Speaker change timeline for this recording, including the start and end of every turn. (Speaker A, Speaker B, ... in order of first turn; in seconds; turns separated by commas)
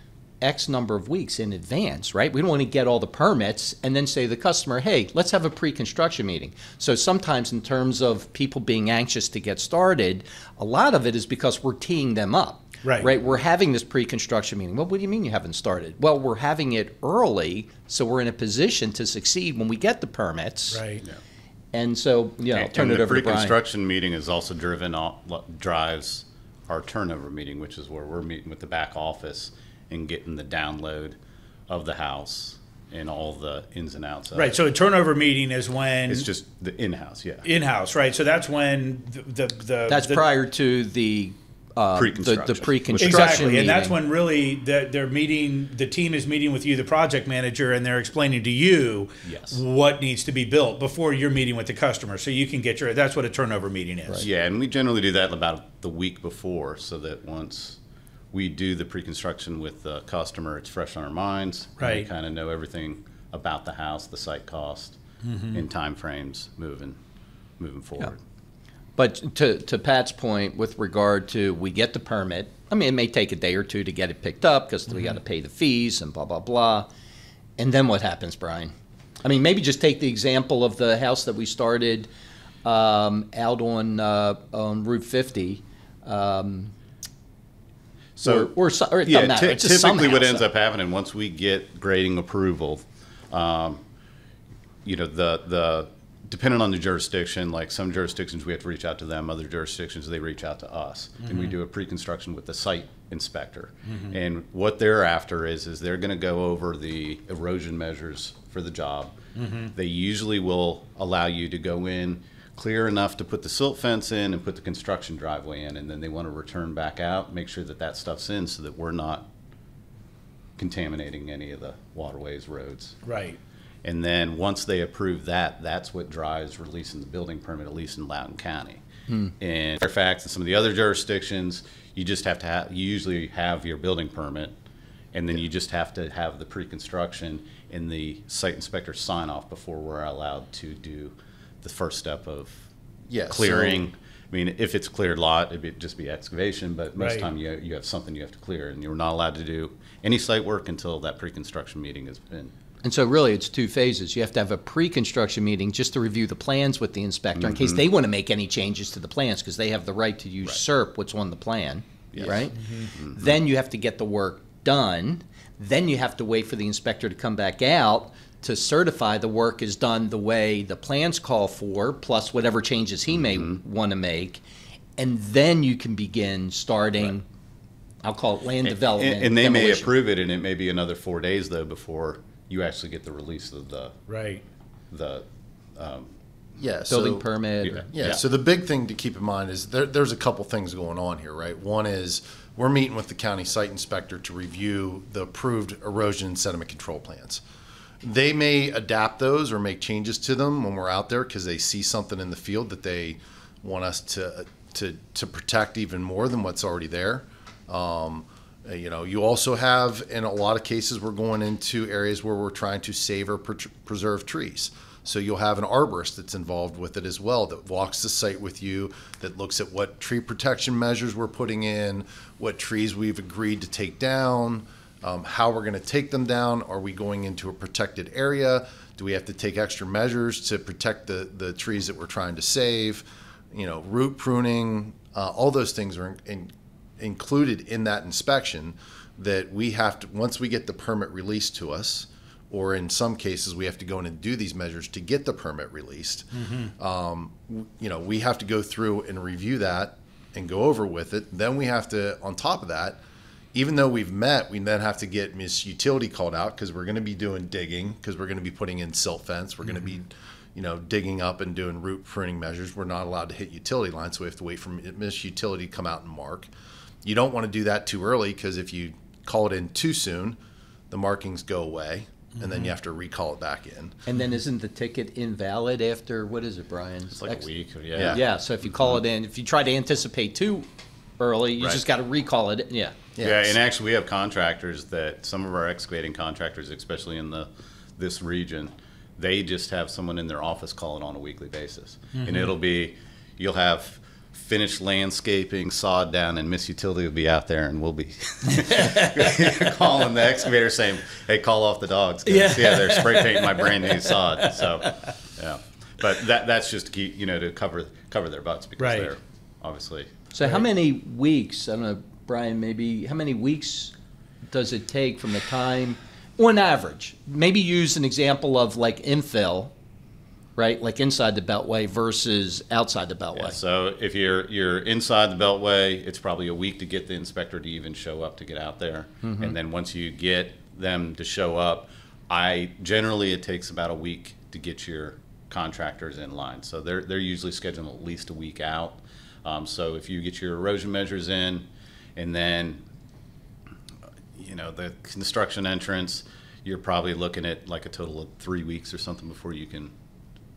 Speaker A: 0.4-20.8, Speaker B: 12.8-13.1, Speaker B: 20.7-21.0, Speaker A: 21.7-23.6, Speaker C: 22.5-31.1, Speaker C: 31.7-34.5, Speaker B: 34.3-36.3, Speaker C: 36.1-37.5, Speaker B: 37.4-40.2, Speaker A: 39.9-44.0, Speaker C: 42.0-43.8, Speaker B: 43.0-54.2, Speaker C: 49.3-49.6, Speaker C: 54.2-57.8, Speaker C: 58.3-65.0, Speaker B: 61.8-62.1, Speaker B: 65.2-65.6, Speaker C: 65.5-67.0, Speaker C: 67.6-68.2, Speaker A: 69.0-76.9, Speaker A: 77.6-78.7, Speaker A: 79.2-82.1, Speaker A: 82.6-86.7, Speaker C: 88.2-88.5, Speaker A: 88.2-90.5, Speaker C: 89.0-93.8, Speaker C: 94.8-109.2, Speaker B: 101.2-101.5, Speaker B: 103.9-104.1, Speaker B: 109.4-109.7, Speaker C: 109.7-119.3, Speaker C: 120.6-123.0, Speaker B: 123.0-123.4, Speaker C: 123.8-128.8, Speaker A: 129.1-129.3, Speaker C: 129.4-134.5, Speaker C: 135.1-142.6, Speaker D: 143.1-143.8, Speaker C: 143.3-152.5, Speaker B: 147.0-147.3, Speaker A: 152.8-174.4, Speaker C: 157.4-157.8, Speaker C: 162.1-162.4, Speaker B: 162.6-162.9, Speaker C: 163.0-163.3, Speaker A: 175.0-177.2, Speaker A: 178.0-179.9, Speaker C: 178.6-184.1, Speaker B: 184.1-184.4, Speaker C: 184.9-185.2, Speaker C: 185.8-186.1, Speaker D: 186.6-187.3, Speaker A: 186.9-187.9, Speaker C: 187.6-188.2, Speaker D: 187.9-197.4, Speaker D: 198.0-253.0, Speaker B: 246.4-246.7, Speaker D: 253.5-266.5, Speaker D: 267.0-270.4, Speaker D: 270.9-274.0, Speaker A: 274.1-277.4, Speaker C: 277.1-278.2, Speaker D: 277.9-278.2, Speaker A: 278.0-280.7, Speaker A: 281.2-283.0, Speaker D: 283.1-283.6, Speaker C: 283.2-310.1, Speaker B: 292.2-292.5, Speaker B: 298.5-299.8, Speaker B: 302.2-304.8, Speaker B: 308.8-309.1, Speaker A: 310.3-313.9, Speaker A: 314.5-319.7, Speaker A: 320.6-323.6, Speaker C: 323.3-342.8, Speaker A: 329.2-329.5, Speaker C: 344.4-349.9